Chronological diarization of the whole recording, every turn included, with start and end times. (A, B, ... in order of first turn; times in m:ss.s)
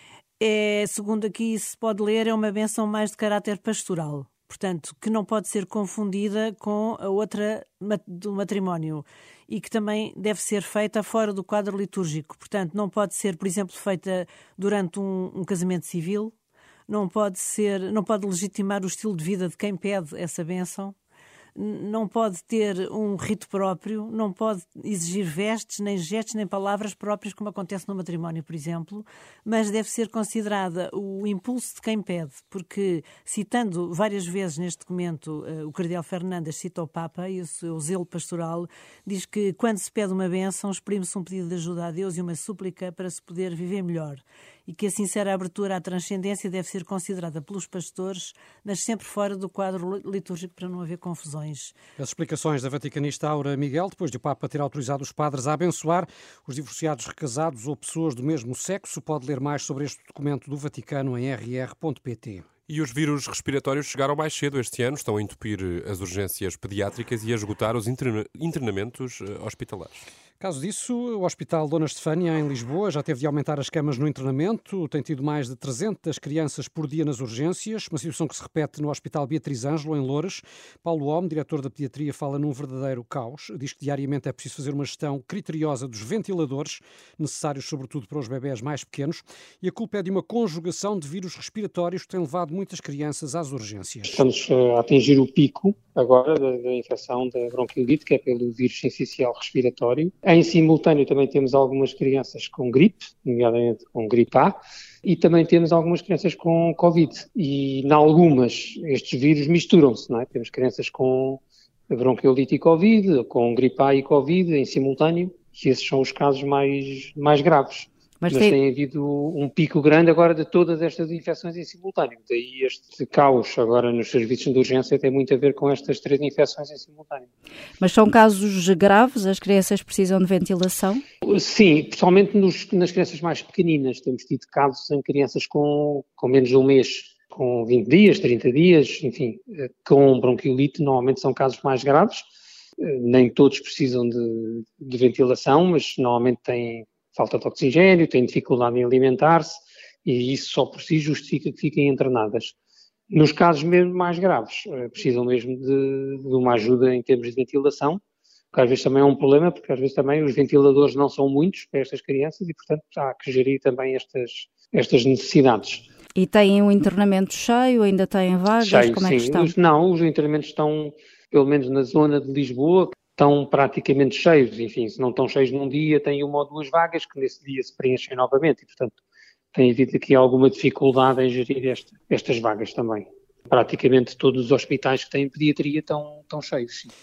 0:00.4-0:16.4 A
0:16.9-0:21.0 A
0:21.6-0:51.8 A
0:52.0-1:02.5 B
1:02.7-1:10.1 C
1:10.4-1:34.2 B
1:34.1-2:07.3 D
2:07.8-2:11.0 E
2:11.2-2:22.3 D
2:22.8-2:32.6 D
2:33.1-2:38.0 D
2:38.5-2:45.9 D
2:46.2-2:49.5 E
2:48.6-2:59.0 D
2:59.5-3:06.9 D